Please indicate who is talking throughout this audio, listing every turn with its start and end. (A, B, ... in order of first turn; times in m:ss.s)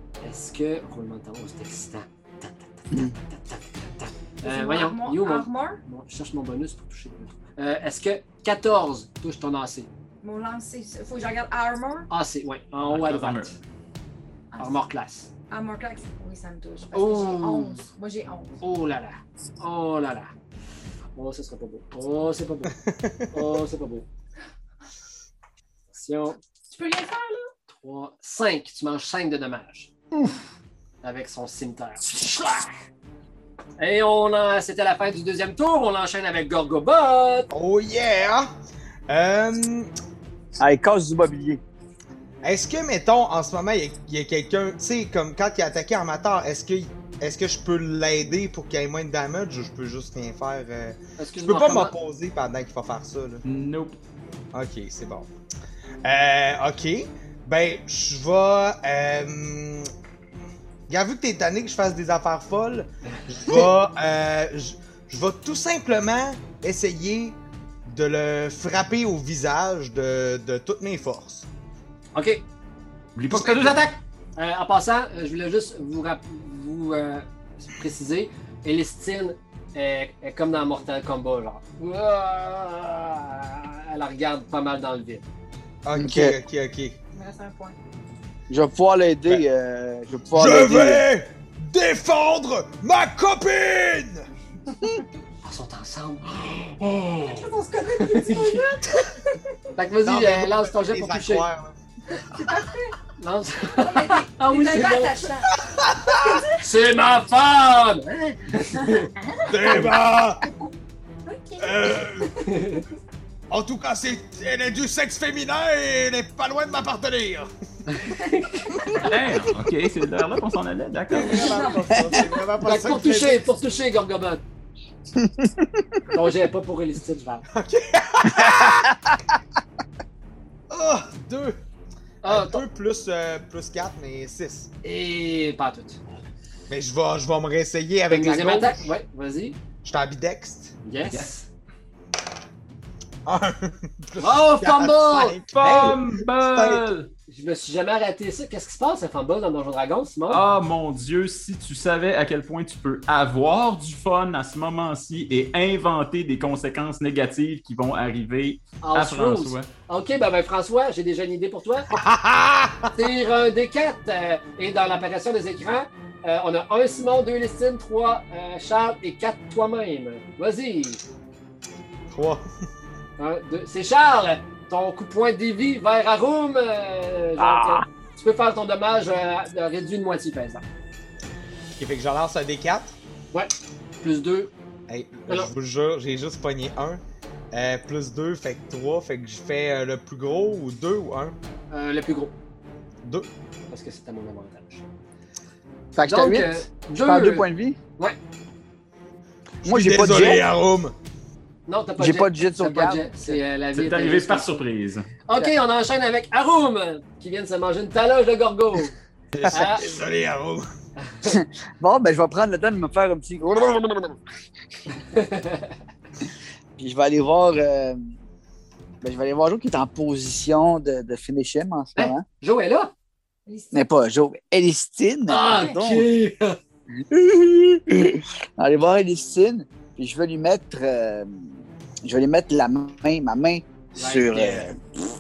0:00.2-0:09.9 A
0:04.4-0:05.8 B
0:10.2-0:12.1 B
0:12.1-0:13.6 A
0:12.9-0:13.5 C
0:14.5-0:14.8 B
0:14.6-0:15.3 A
0:15.5-0:18.6 B
0:16.9-0:17.8 A
0:18.6-0:20.3 A
0:21.2-0:22.7 A
0:22.8-0:23.3 D
0:23.3-0:24.1 A
0:25.9-0:26.4 A
0:26.7-0:27.5 B
0:27.7-0:29.9 A
0:31.0-0:32.8 A
0:33.8-0:37.5 A
0:37.5-0:38.5 D
0:39.1-0:39.9 D
0:40.6-0:41.6 E
0:42.4-0:53.4 D
0:51.2-0:52.0 A
0:53.4-0:54.0 C
0:54.5-0:55.3 D
0:56.0-0:59.9 D
1:00.9-1:11.5 D
1:12.2-1:12.4 A
1:13.2-1:14.0 C
1:13.3-1:13.8 D
1:14.4-1:25.2 A
1:25.8-1:27.0 D
1:26.0-1:26.4 E
1:27.1-1:27.8 B
1:28.5-1:31.0 E
1:30.4-1:34.3 D
1:35.4-1:37.4 A
1:37.3-1:39.4 B
1:38.0-1:38.7 A
1:39.8-1:41.5 A
1:40.0-1:42.4 D
1:42.1-1:43.0 B
1:43.2-1:45.2 A
1:43.8-1:45.5 B
1:45.8-1:46.4 D
1:46.2-1:46.5 B
1:46.6-1:49.1 A
1:49.3-1:49.7 B
1:49.5-1:50.5 D
1:51.3-1:52.6 B
1:51.6-1:52.3 D
1:52.5-1:52.8 A
1:53.5-1:57.5 D
1:57.9-1:59.0 A
1:59.0-2:01.6 C
2:01.1-2:03.4 D
2:01.2-2:02.3 B
2:02.6-2:04.4 A
2:05.2-2:06.0 E
2:06.1-2:07.5 A
2:07.6-2:08.9 D
2:08.3-2:09.2 E
2:10.7-2:11.6 D
2:12.2-2:12.6 A
2:12.2-2:14.7 D
2:14.8-2:16.0 A
2:16.7-2:18.8 D
2:18.1-2:19.6 A
2:19.8-2:20.7 D
2:20.8-2:21.5 A
2:23.2-2:26.8 D
2:24.2-2:25.4 A
2:25.5-2:27.1 C
2:27.3-2:30.4 A
2:30.3-2:39.7 C
2:38.8-2:41.9 A
2:41.9-2:42.9 D
2:42.9-2:51.0 A
2:52.1-2:52.4 D
2:53.2-3:00.6 A
3:01.8-3:03.0 D
3:03.3-3:04.5 A
3:04.9-3:07.0 D
3:07.5-3:11.4 D
3:11.7-3:12.4 A
3:13.0-3:13.3 D
3:13.7-3:14.8 A
3:16.0-3:17.8 E
3:16.0-3:17.5 A
3:19.6-3:21.0 D
3:19.6-3:20.5 E
3:21.7-3:24.6 A
3:22.0-3:23.4 E
3:23.7-3:25.1 C
3:25.3-3:29.0 A
3:29.4-3:30.7 D
3:29.5-3:29.9 A
3:31.2-3:34.2 E
3:35.0-3:35.7 A
3:36.8-3:38.1 E
3:39.0-3:42.2 E
3:42.0-3:42.9 A
3:43.5-3:43.7 B
3:43.7-3:46.1 E
3:45.3-3:46.6 A
3:45.5-3:45.7 B
3:47.0-3:51.5 E
3:52.0-3:54.8 E
3:54.0-3:54.7 A